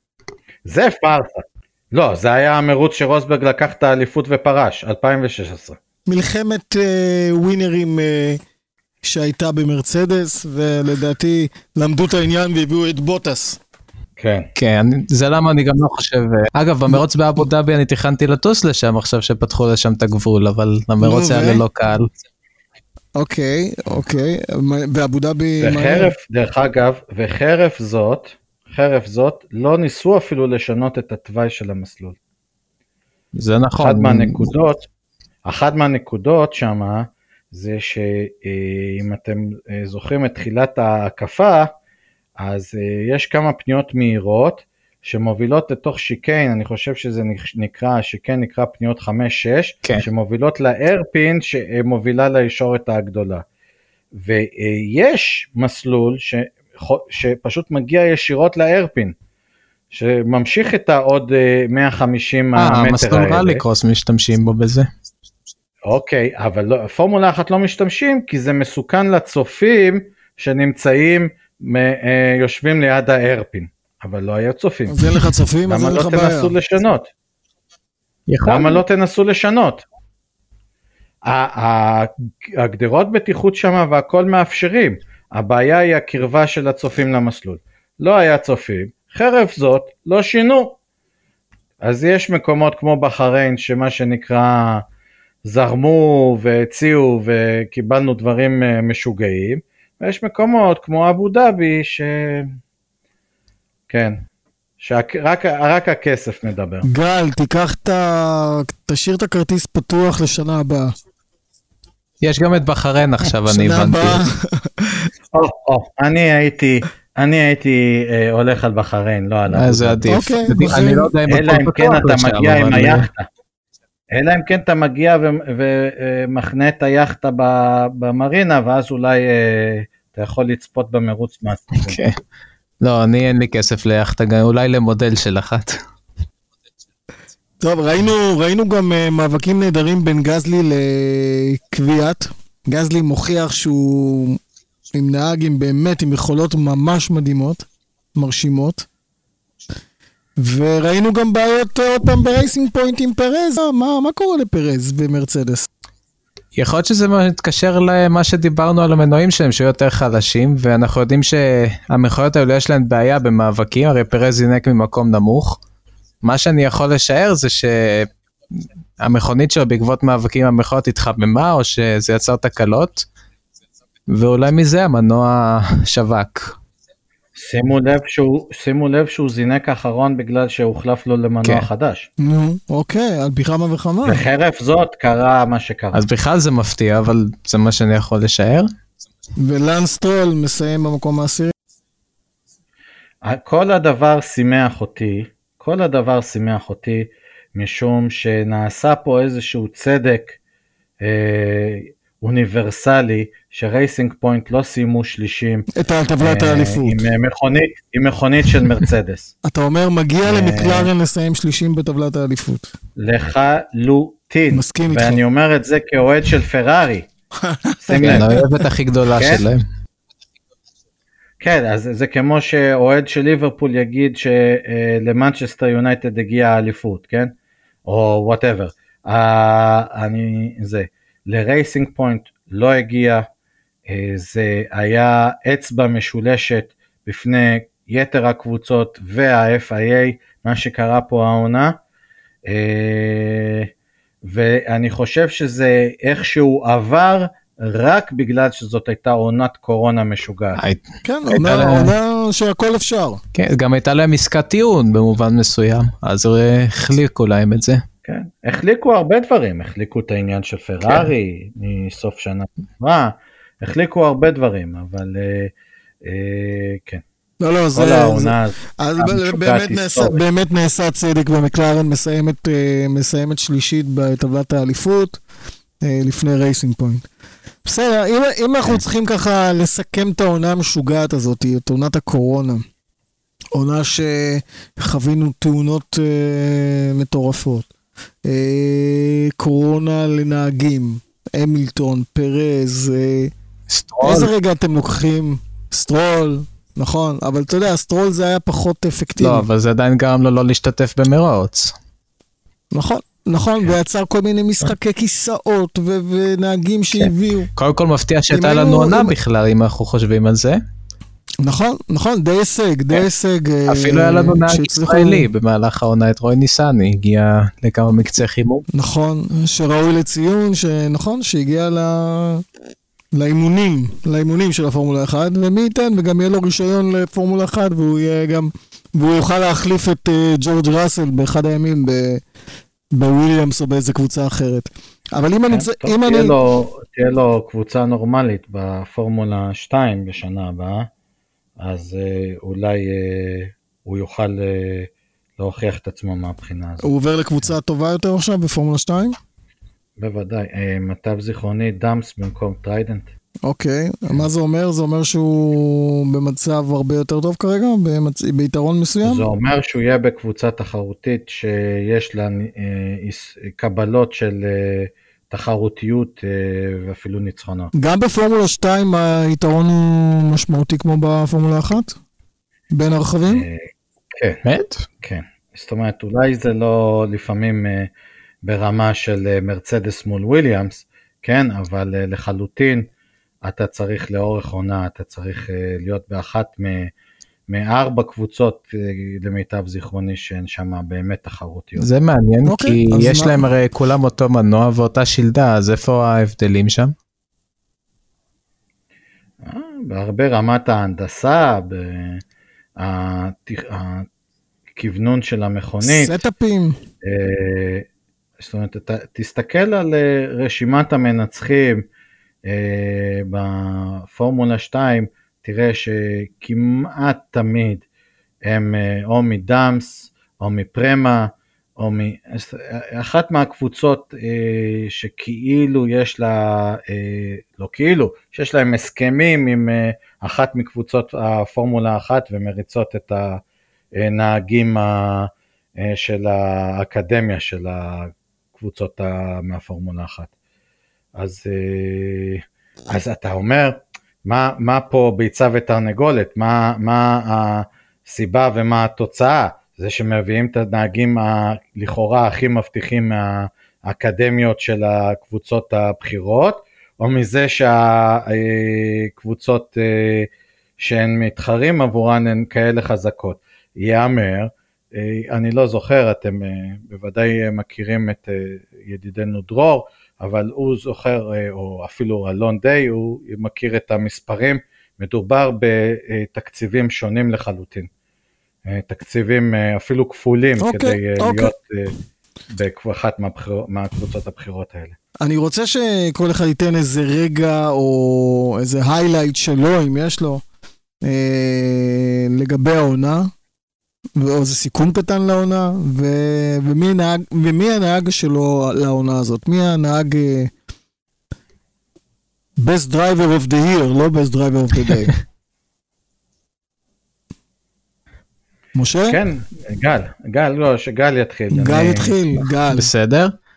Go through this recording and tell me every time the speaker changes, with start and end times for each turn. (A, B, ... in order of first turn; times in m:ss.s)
0:00.6-0:05.8 A
0:06.1-0:08.4 B
0:09.0-0:13.6 B
0:14.2-0:14.5 A
0:14.6-0:22.1 C
0:21.0-0:21.6 B
0:23.2-0:26.1 B
0:25.6-0:32.2 A
0:33.4-0:34.5 C
0:33.8-0:34.9 A
0:35.4-0:41.7 A
0:42.4-0:53.4 A
0:54.1-0:59.1 A
0:59.9-1:03.6 A
1:02.6-1:04.9 C
1:05.9-1:17.1 A
1:14.9-1:16.5 B
1:18.3-1:18.8 C
1:18.4-1:19.8 A
1:21.2-1:30.8 A
1:31.8-1:34.8 A
1:35.4-1:42.6 A
1:43.9-1:44.2 A
1:44.8-1:46.9 A
1:46.9-1:50.9 B
1:52.2-1:54.2 C
1:53.5-1:55.1 B
1:55.3-2:03.3 A
1:59.5-2:03.1 C
2:00.1-2:01.1 B
2:04.1-2:12.0 A
2:11.9-2:12.2 C
2:12.8-2:15.8 C
2:17.6-2:24.4 B
2:24.9-2:28.9 B
2:30.4-2:35.7 B
2:36.5-2:45.6 C
2:46.2-2:48.1 C
2:49.0-2:53.1 C
2:54.1-2:56.6 C
2:57.4-3:02.1 A
3:02.2-3:04.2 B
3:04.0-3:06.0 A
3:05.9-3:08.7 C
3:09.4-3:11.5 B
3:13.2-3:20.4 A
3:21.0-3:25.7 A
3:25.7-3:27.0 B
3:26.2-3:29.3 A
3:29.4-3:32.7 B
3:30.2-3:30.9 A
3:33.0-3:37.1 A
3:34.5-3:35.2 B
3:37.4-3:38.4 B
3:37.8-3:38.4 A
3:38.0-3:39.6 C
3:39.0-3:39.4 A
3:41.4-3:47.3 A
3:47.8-3:53.2 A
3:53.9-4:01.8 A
4:02.4-4:03.7 A
4:04.2-4:10.6 A
4:10.6-4:11.9 C
4:11.0-4:13.2 B
4:13.4-4:17.8 C
4:18.0-4:25.5 A
4:26.0-4:27.0 A
4:27.4-4:35.2 B
4:27.8-4:30.2 A
4:35.8-4:37.0 B
4:37.6-4:42.6 B
4:43.5-4:47.7 B
4:48.2-4:53.3 B
4:53.7-4:54.3 C
4:54.0-4:59.4 B
4:59.2-5:01.7 C
5:02.7-5:07.5 B
5:07.0-5:10.6 C
5:08.3-5:09.1 B
5:11.4-5:15.3 B
5:13.7-5:18.6 C
5:18.7-5:22.4 B
5:23.1-5:32.2 B
5:32.9-5:36.4 B
5:35.5-5:40.9 A
5:41.6-5:46.9 A
5:46.8-5:49.2 B
5:50.0-5:53.1 A
5:53.4-5:59.2 B
5:59.0-6:07.7 A
6:07.7-6:12.0 B
6:12.7-6:13.4 B
6:13.3-6:13.6 A
6:14.2-6:14.4 A
6:14.4-6:14.9 C
6:15.0-6:17.9 A
6:18.4-6:22.9 A
6:23.4-6:26.9 A
6:27.5-6:31.8 A
6:31.8-6:36.9 C
6:32.4-6:33.4 B
6:39.4-6:42.2 A
6:42.8-6:44.1 A
6:44.8-6:46.2 A
6:45.8-6:46.8 B
6:47.0-6:47.9 A
6:48.4-6:51.9 A
6:52.4-6:57.8 A
6:58.4-7:13.4 A
7:14.0-7:20.3 A
7:21.1-7:57.9 A
7:58.6-8:01.9 A
8:00.6-8:01.5 B
8:02.5-8:05.0 A
8:05.2-8:10.4 B
8:11.0-8:13.3 B
8:14.2-8:20.5 B
8:22.6-8:25.2 B
8:28.8-8:29.2 B
8:29.1-8:32.1 A
8:31.5-8:32.9 B
8:32.7-8:33.3 C